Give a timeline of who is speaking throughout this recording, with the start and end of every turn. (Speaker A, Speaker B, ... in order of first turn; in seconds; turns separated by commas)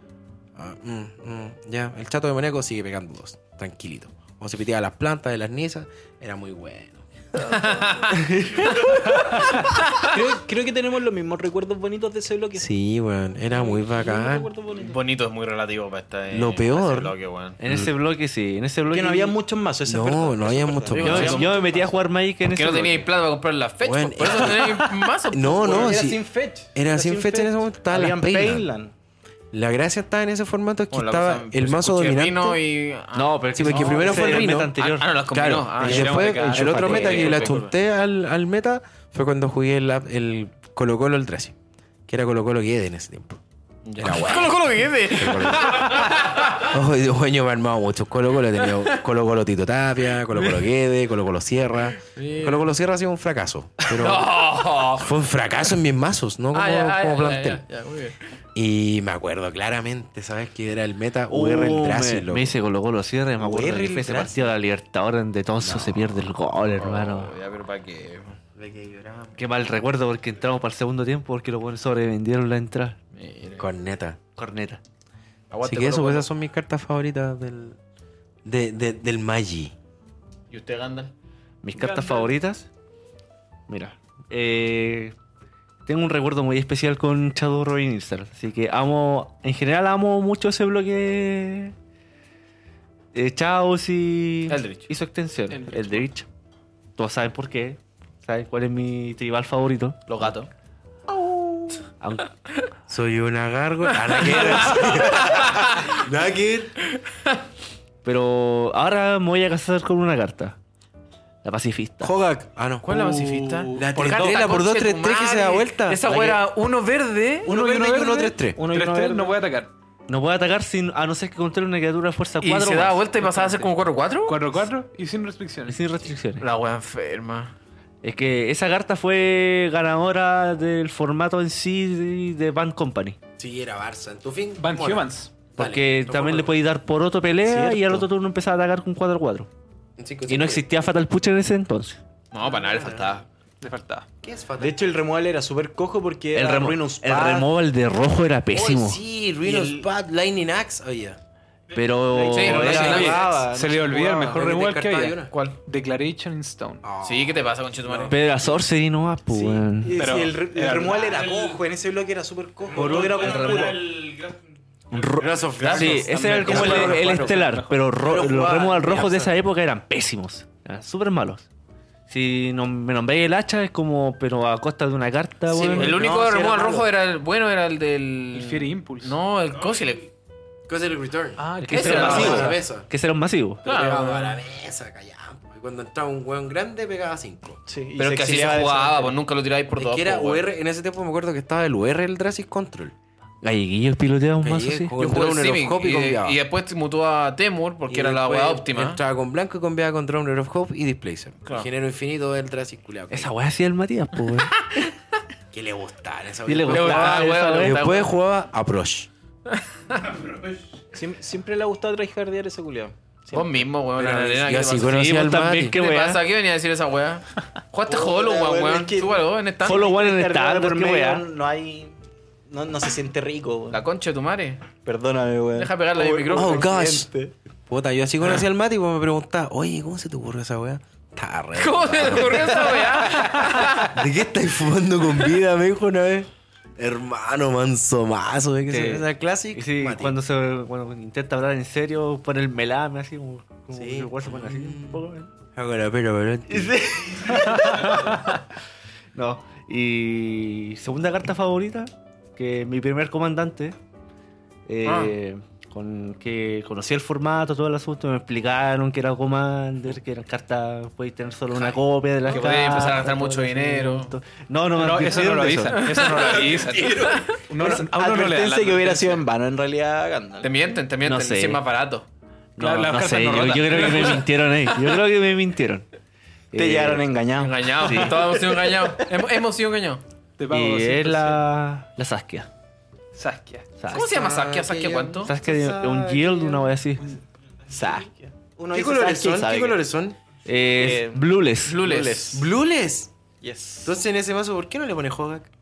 Speaker A: 0.6-7.6, Speaker B: 7.5-10.2, Speaker A: 8.1-9.4, Speaker C: 10.0-12.7, Speaker A: 12.6-14.5, Speaker C: 13.5-15.0, Speaker B: 14.8-17.6, Speaker A: 16.3-17.1, Speaker D: 17.6-19.4, Speaker A: 17.6-17.9, Speaker C: 18.9-21.9, Speaker A: 19.9-21.5, Speaker B: 20.9-21.6, Speaker D: 21.0-23.1, Speaker B: 22.4-26.0, Speaker A: 23.8-28.7, Speaker C: 25.5-28.9, Speaker A: 29.5-32.6, Speaker B: 30.9-37.7, Speaker D: 33.1-35.1, Speaker A: 33.6-41.5, Speaker E: 35.9-36.8, Speaker C: 36.6-37.2, Speaker D: 36.6-37.1, Speaker A: 42.1-43.4, Speaker B: 43.9-46.7, Speaker A: 44.0-57.6, Speaker B: 48.6-49.0, Speaker B: 52.0-52.7, Speaker B: 53.9-55.1, Speaker B: 56.5-58.2, Speaker A: 58.5-62.5, Speaker D: 61.3-67.4, Speaker C: 63.5-64.3, Speaker A: 65.6-66.3, Speaker B: 66.7-68.4, Speaker A: 68.6-69.4, Speaker D: 69.3-73.0, Speaker B: 73.1-73.7, Speaker A: 73.6-74.2, Speaker D: 74.4-74.8, Speaker B: 75.5-76.3, Speaker A: 75.6-77.8, Speaker A: 78.5-79.8, Speaker B: 80.5-81.1, Speaker D: 81.6-82.7, Speaker E: 81.8-82.3, Speaker D: 83.7-85.2, Speaker D: 85.9-91.7, Speaker D: 93.1-96.3, Speaker B: 94.5-94.9, Speaker E: 95.5-96.1, Speaker D: 97.0-100.3, Speaker B: 100.1-100.5, Speaker D: 102.0-102.3, Speaker A: 102.9-106.8, Speaker B: 103.9-106.0, Speaker D: 108.0-110.6, Speaker D: 111.4-112.1, Speaker A: 112.0-113.0, Speaker B: 112.8-117.5, Speaker E: 113.2-113.9, Speaker A: 113.7-116.3, Speaker C: 116.1-116.4, Speaker E: 117.5-119.7, Speaker C: 117.5-118.0, Speaker A: 117.6-118.6, Speaker C: 118.5-119.4, Speaker D: 120.1-123.5, Speaker B: 122.4-124.5, Speaker E: 124.3-125.8, Speaker D: 125.7-126.5, Speaker B: 126.4-127.5, Speaker D: 128.0-133.2, Speaker A: 133.4-136.5, Speaker E: 134.6-135.3, Speaker D: 135.6-139.5, Speaker C: 137.4-138.1, Speaker A: 140.0-140.7, Speaker D: 140.3-142.0, Speaker B: 142.3-143.3, Speaker A: 142.5-143.1, Speaker E: 143.6-144.1, Speaker A: 144.2-144.8, Speaker C: 144.6-147.5, Speaker D: 146.3-149.0, Speaker A: 148.5-151.2, Speaker C: 149.4-149.9, Speaker D: 151.7-153.2, Speaker C: 152.1-154.0, Speaker B: 152.3-153.2, Speaker A: 152.5-155.3, Speaker E: 152.8-156.8, Speaker B: 155.3-155.6, Speaker A: 156.8-158.2, Speaker B: 157.0-158.2, Speaker D: 158.1-160.0, Speaker C: 159.3-163.8, Speaker E: 159.9-161.0, Speaker F: 160.9-161.6, Speaker F: 162.7-165.5, Speaker D: 162.7-163.8, Speaker D: 164.9-171.5, Speaker A: 164.9-167.4, Speaker B: 165.6-166.1, Speaker E: 166.1-167.9, Speaker A: 168.0-169.3, Speaker D: 172.1-176.0, Speaker C: 175.5-176.9, Speaker A: 175.6-175.9, Speaker B: 175.7-180.1, Speaker E: 178.3-179.2, Speaker F: 179.6-180.0, Speaker A: 180.7-182.9, Speaker E: 181.4-182.4, Speaker D: 181.6-183.6, Speaker B: 181.7-182.6, Speaker C: 182.0-182.5, Speaker B: 183.6-184.4, Speaker A: 183.7-187.6, Speaker C: 187.7-189.2, Speaker B: 188.0-190.5, Speaker A: 189.7-192.9, Speaker D: 193.4-194.9, Speaker A: 194.4-196.4, Speaker B: 195.0-199.0, Speaker A: 197.9-203.3, Speaker D: 203.1-204.6, Speaker A: 205.5-209.1, Speaker D: 206.5-207.8, Speaker B: 206.7-208.1, Speaker B: 209.5-210.1, Speaker F: 210.2-210.6, Speaker C: 210.9-213.6, Speaker B: 213.3-219.9, Speaker A: 214.0-215.8, Speaker D: 214.9-216.2, Speaker C: 217.9-222.0, Speaker D: 219.6-221.2, Speaker C: 222.5-223.8, Speaker B: 223.7-224.6, Speaker C: 224.8-227.3, Speaker B: 225.6-226.8, Speaker A: 226.3-227.1, Speaker A: 227.7-233.0, Speaker B: 231.6-234.0, Speaker A: 233.9-240.2, Speaker D: 238.7-245.3, Speaker A: 243.7-247.9, Speaker D: 246.5-248.3, Speaker D: 249.2-253.8, Speaker D: 254.7-265.9, Speaker B: 254.8-255.1, Speaker B: 262.3-264.1, Speaker E: 264.8-269.2, Speaker B: 265.7-267.4, Speaker F: 266.1-267.4, Speaker C: 267.6-270.5, Speaker B: 270.4-272.1, Speaker D: 271.0-271.6, Speaker D: 272.6-275.9, Speaker E: 272.6-274.3, Speaker D: 276.5-277.1, Speaker C: 276.5-278.6, Speaker B: 277.4-280.0, Speaker D: 277.8-278.2, Speaker E: 280.4-281.4, Speaker D: 280.5-282.5, Speaker E: 283.1-283.7, Speaker D: 283.8-284.1, Speaker B: 283.9-285.3, Speaker A: 283.9-286.6, Speaker D: 285.2-287.2, Speaker C: 287.7-289.8, Speaker A: 288.7-290.2, Speaker D: 290.4-291.9, Speaker C: 290.6-292.4, Speaker B: 291.6-292.4, Speaker A: 292.3-293.1, Speaker C: 293.4-294.0, Speaker A: 293.8-295.5